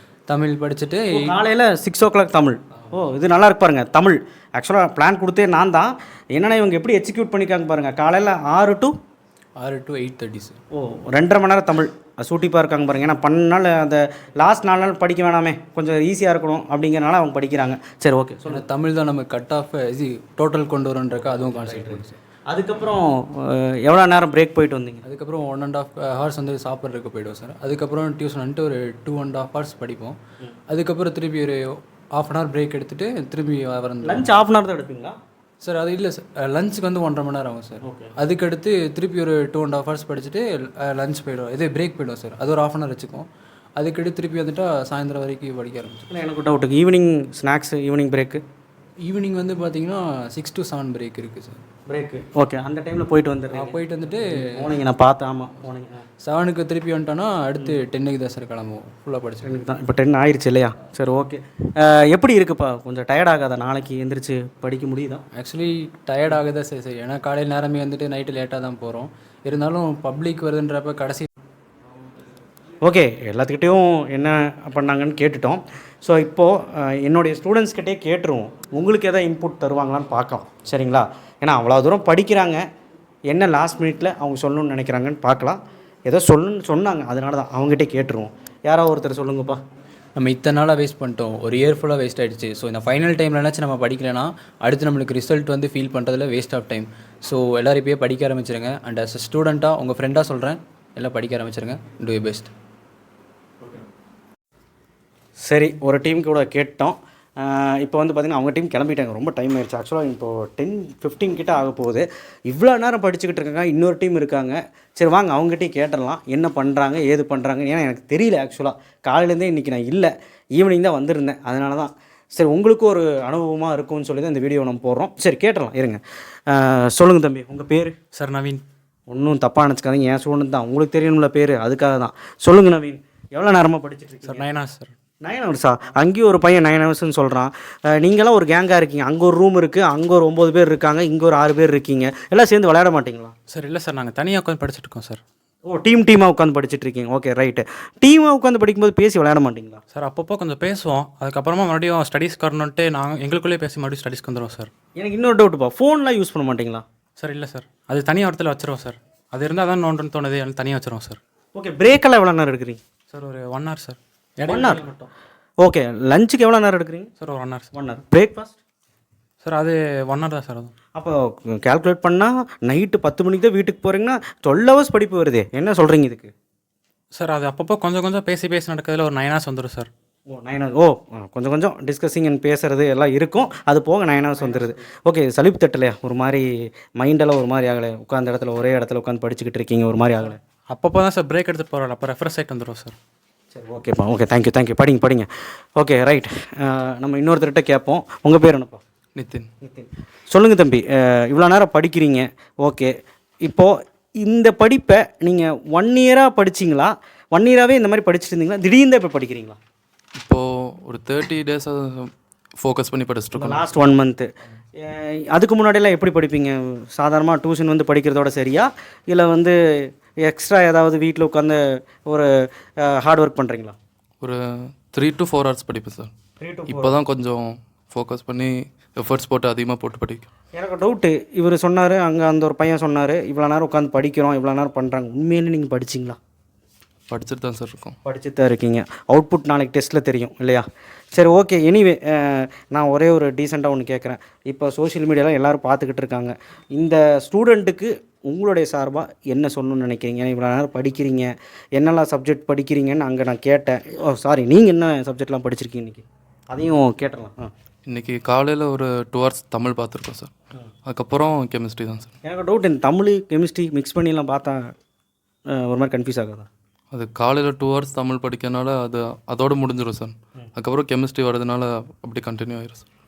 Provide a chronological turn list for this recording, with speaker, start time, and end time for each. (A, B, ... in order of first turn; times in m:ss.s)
0:00.3-0:01.4 A
0:01.1-0:09.0 B
0:09.6-0:10.6 A
0:10.7-0:18.6 B
0:18.5-0:22.1 A
0:21.4-0:25.0 B
0:25.0-0:30.2 A
0:30.7-0:31.6 A
0:32.2-0:34.3 A
0:34.0-0:35.2 B
0:35.6-0:46.1 A
0:37.8-0:38.1 B
0:46.1-0:48.4 B
0:49.0-0:51.6 A
0:51.9-0:53.8 B
0:53.5-0:54.7 A
0:54.4-0:56.1 B
0:56.2-0:59.6 A
0:59.4-1:05.2 B
1:05.4-1:11.3 A
1:12.8-1:22.6 B
1:23.3-1:29.6 B
1:30.2-1:42.5 A
1:45.4-2:08.0 B
2:08.1-2:08.6 C
2:09.1-2:14.4 B
2:14.3-2:14.9 C
2:15.2-2:23.3 B
2:23.5-2:25.2 C
2:25.7-2:29.8 B
2:29.9-2:34.7 C
2:35.0-2:36.8 B
2:37.2-2:41.2 C
2:41.6-2:42.8 B
2:43.1-2:44.9 C
2:44.5-2:45.0 B
2:45.6-2:47.1 B
2:47.2-2:47.7 C
2:47.7-2:48.6 B
2:49.4-2:50.7 C
2:51.0-2:56.3 B
2:57.2-2:59.9 C
3:00.3-3:10.4 B
3:04.4-3:04.7 C
3:10.7-3:13.0 C
3:13.5-3:18.8 B
3:19.2-3:19.5 D
3:19.6-3:29.6 B
3:30.2-3:33.7 D
3:33.3-3:34.3 B
3:34.8-3:42.3 B
3:42.8-3:43.8 B
3:44.2-3:46.1 D
3:46.4-3:47.0 B
3:46.7-3:50.3 D
3:50.6-3:56.2 B
3:57.1-3:58.0 D
3:58.0-4:17.5 B
4:17.9-4:20.3 D
4:20.8-4:22.1 D
4:22.2-4:24.7 B
4:25.5-4:26.5 B
4:26.9-4:32.8 D